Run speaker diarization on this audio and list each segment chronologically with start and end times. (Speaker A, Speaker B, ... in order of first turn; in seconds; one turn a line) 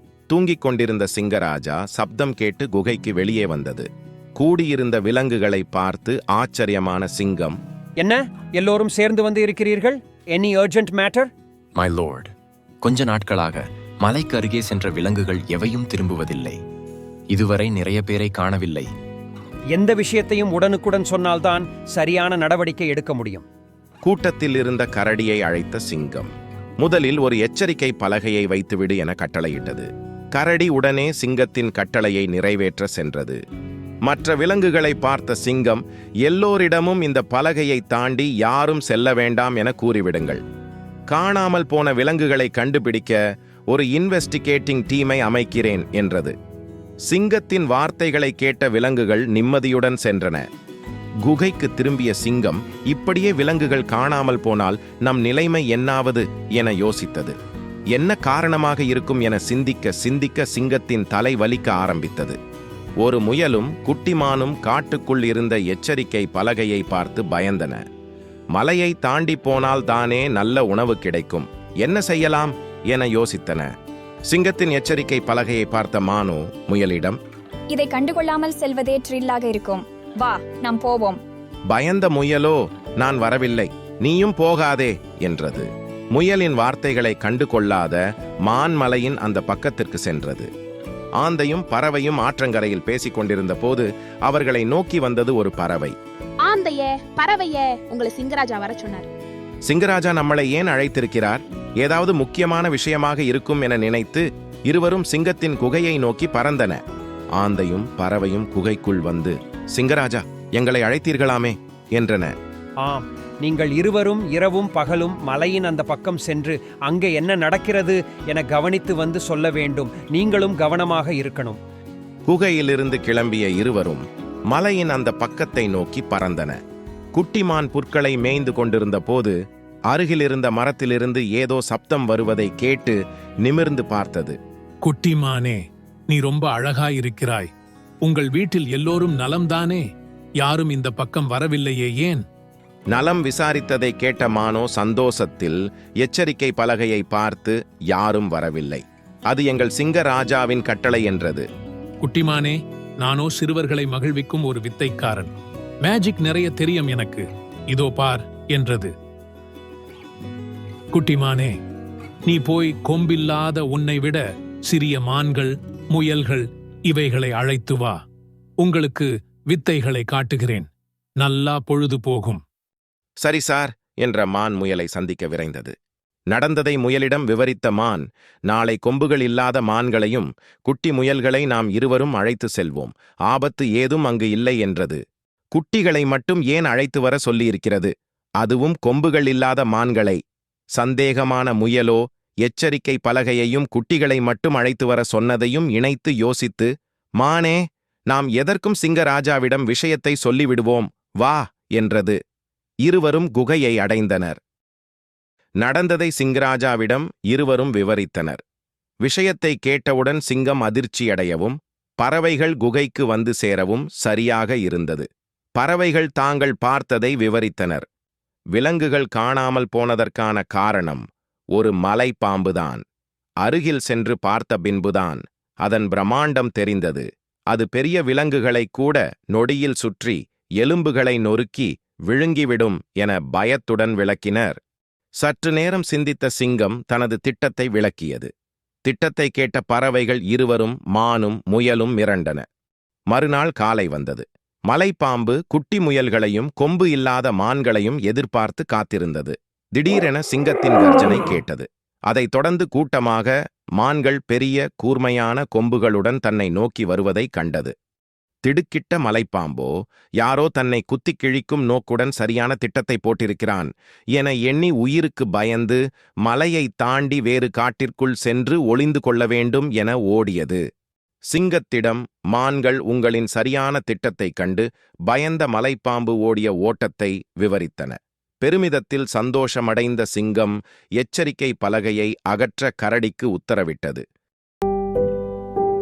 Speaker A: 0.3-7.5
Speaker B: 8.0-11.3
Speaker C: 11.8-16.6
Speaker C: 17.3-18.9
Speaker B: 19.7-23.4
Speaker A: 24.0-33.4
Speaker A: 34.0-40.4
Speaker A: 41.1-46.4
Speaker A: 47.0-50.4
Speaker A: 51.2-57.4
Speaker A: 57.9-62.4
Speaker A: 63.0-67.8
Speaker A: 68.5-73.7
Speaker A: 74.3-77.2
Speaker D: 77.7-81.2
Speaker A: 81.7-90.5
Speaker A: 91.2-96.0
Speaker E: 96.4-99.1
Speaker A: 99.7-106.8
Speaker A: 107.4-112.3
Speaker B: 112.8-121.6
Speaker A: 122.3-126.6
Speaker A: 127.1-129.3
Speaker A: 129.9-134.4
Speaker F: 134.8-137.5
Speaker F: 138.0-139.8
Speaker F: 140.4-142.2
Speaker A: 142.9-151.4
Speaker F: 152.0-155.3
Speaker F: 155.8-158.9
Speaker F: 160.9-161.6
Speaker F: 162.2-167.9
Speaker F: 168.6-170.7
Speaker F: 171.2-172.4
Speaker A: 173.2-175.7
Speaker A: 176.3-185.0
Speaker A: 185.5-190.2
Speaker A: 190.7-202.2
Speaker A: 202.8-204.4
Speaker A: 205.6-208.4
Speaker A: 209.0-217.8
Speaker A: 218.5-221.0
Speaker A: 221.5-222.8
Speaker A: 223.4-234.6
Speaker A: 235.2-238.3
Speaker A: 238.8-242.4
Speaker A: 243.1-257.7
Speaker A: 258.4-270.6
Speaker A: 271.3-284.0